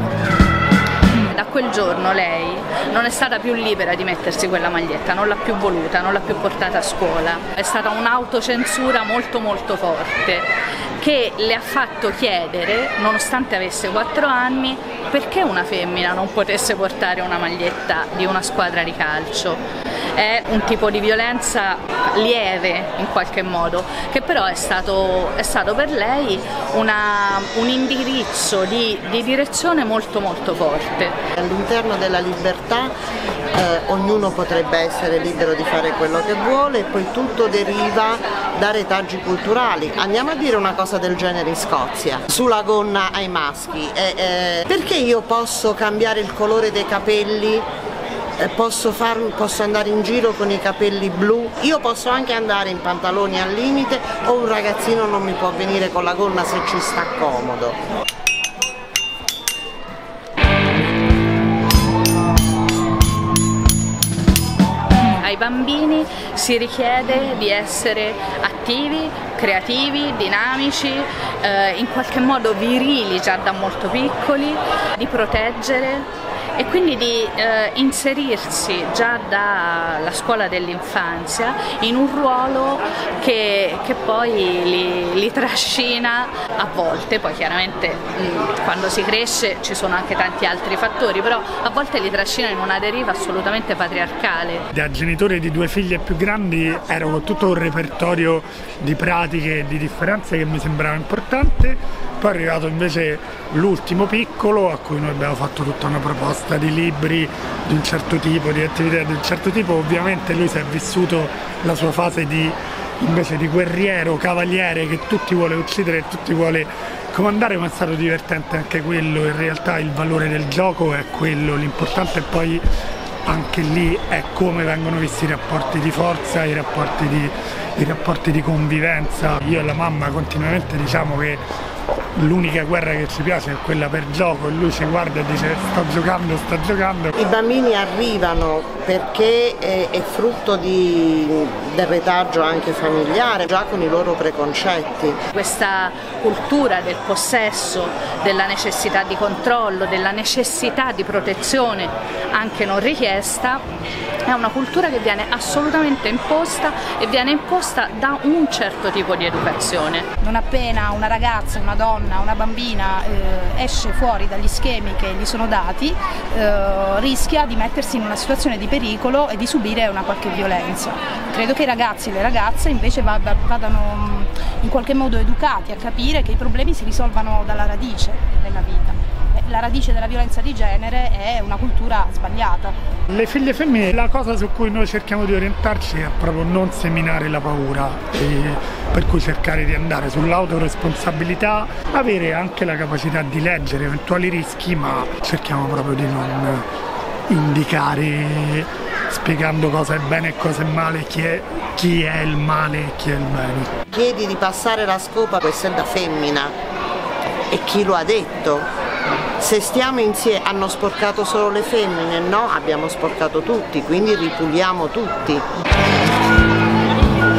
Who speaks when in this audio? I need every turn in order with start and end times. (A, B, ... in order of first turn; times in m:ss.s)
0:01.1-0:19.6 A
0:20.1-0:31.1 A
0:31.4-0:32.9 B
0:33.5-0:47.7 B
0:48.4-0:57.8 B
1:05.2-1:34.6 A
1:34.7-2:02.6 C
2:03.3-2:11.4 C
2:12.2-2:17.1 C
2:17.2-2:25.2 B
2:25.3-2:33.6 A
2:34.2-2:40.1 A
2:40.2-3:02.7 D
3:03.1-3:16.6 C
3:17.3-3:23.7 C
3:23.9-3:26.5 B
3:27.5-3:28.7 B
3:29.4-3:35.4 B